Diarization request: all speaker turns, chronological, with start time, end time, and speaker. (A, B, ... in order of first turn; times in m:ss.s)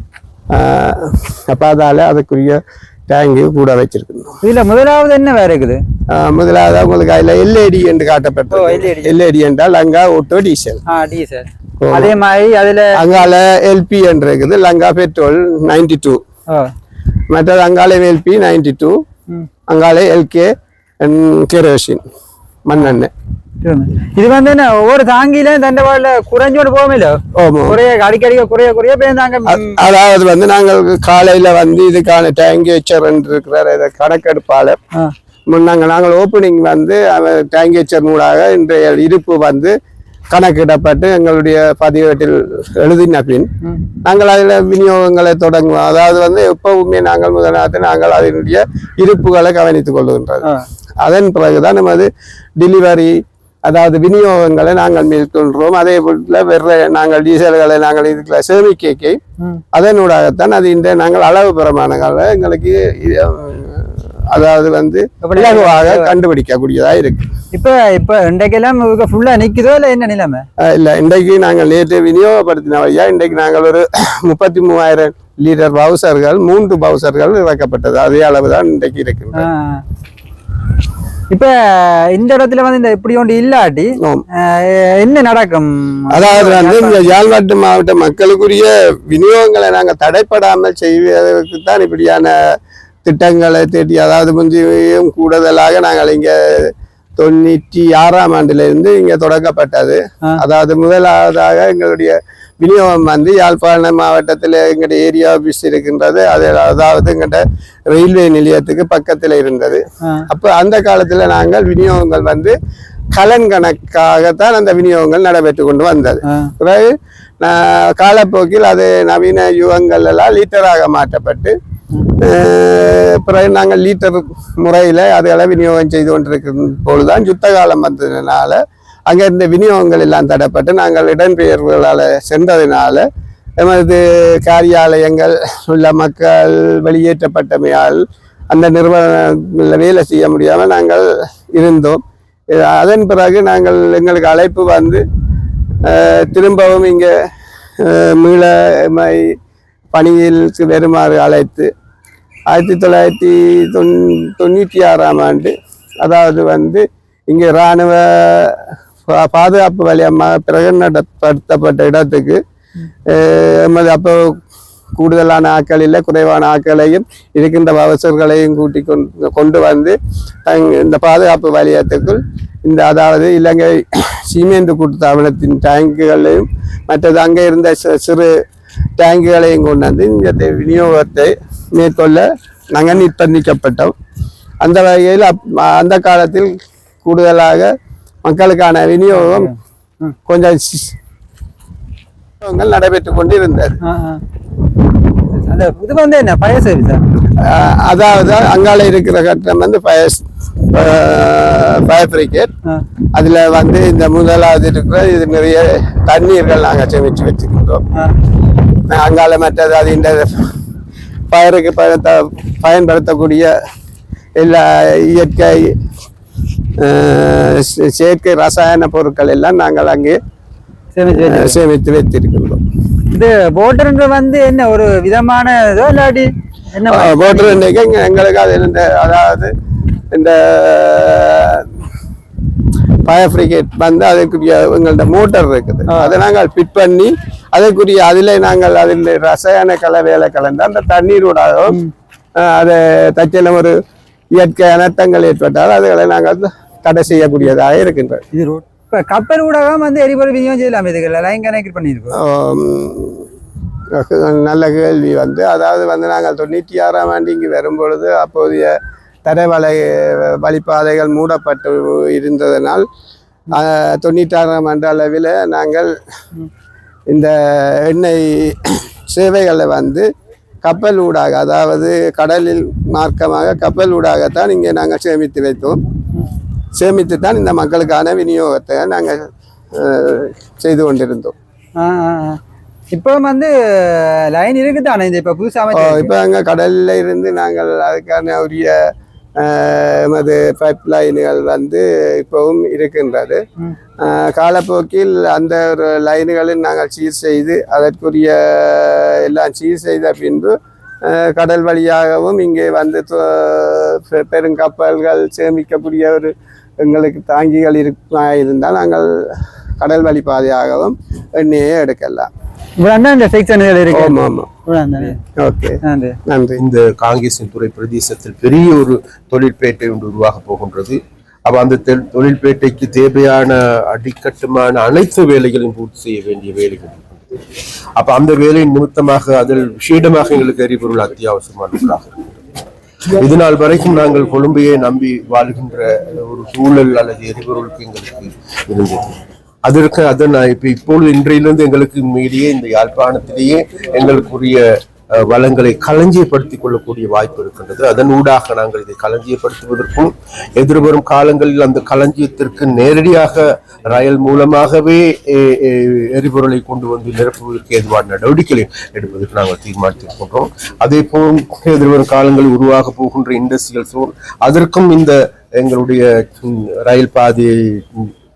0:00.5-0:04.4 A
0:04.4-0:05.8 B
0:06.1-0:10.8 A
0:08.5-0:09.1 B
0:10.9-0:13.0 B
0:11.8-0:12.1 A
0:12.9-0:16.2 A
0:17.3-0:19.0 A
0:19.7-0:22.0 A
0:22.6-0:23.1 A
0:23.6-0:29.8 B
0:27.3-0:27.8 A
0:29.5-0:34.8 A
0:35.5-0:39.7 A
0:40.3-0:43.5 A
0:44.0-0:50.5 A
0:51.0-0:59.2 A
0:59.7-1:07.3 A
1:05.2-1:06.1 B
1:07.5-1:10.4 B
1:10.6-1:19.5 A
1:19.4-1:19.8 B
1:21.3-1:27.0 B
1:24.0-1:24.2 A
1:26.1-1:32.3 A
1:33.0-1:52.5 A
1:53.1-2:01.6 A
2:02.2-2:13.0 A
2:13.6-2:25.0 A
2:25.8-2:27.1 A
2:27.8-2:29.4 A
2:29.9-2:31.7 A
2:32.5-2:42.4 A
2:43.1-2:44.4 A
2:45.0-2:58.3 A
2:59.0-3:03.9 A
3:04.6-3:06.5 A
3:07.0-3:07.7 A
3:08.2-3:09.5 A
3:09.1-3:10.2 B
3:10.3-3:10.9 A
3:12.4-3:13.8 A
3:13.9-3:14.2 B
3:15.3-3:17.0 B
3:17.4-3:22.5 A
3:23.1-3:27.8 A
3:28.9-3:30.5 A
3:31.3-3:33.5 A
3:34.4-3:35.8 A
3:36.8-3:40.2 A
3:40.9-3:41.6 B
3:41.1-3:42.6 A
3:43.1-3:47.6 B
3:46.9-3:49.5 A
3:50.1-3:51.7 A
3:53.0-4:01.8 A
4:02.4-4:03.8 A
4:04.3-4:08.2 A
4:08.3-4:12.1 B
4:12.1-4:13.3 A
4:13.9-4:22.8 A
4:23.5-4:25.9 A
4:27.1-4:30.1 A
4:30.6-4:35.8 A
4:36.8-4:41.3 A
4:41.8-4:42.4 B
4:42.9-4:46.1 B
4:45.7-4:53.4 A
4:54.0-5:12.3 A
5:12.8-5:15.2 B
5:13.9-5:14.5 A
5:15.4-5:16.6 A
5:15.8-5:16.2 B
5:16.6-5:27.2 C
5:28.0-5:32.1 C
5:33.2-6:08.1 C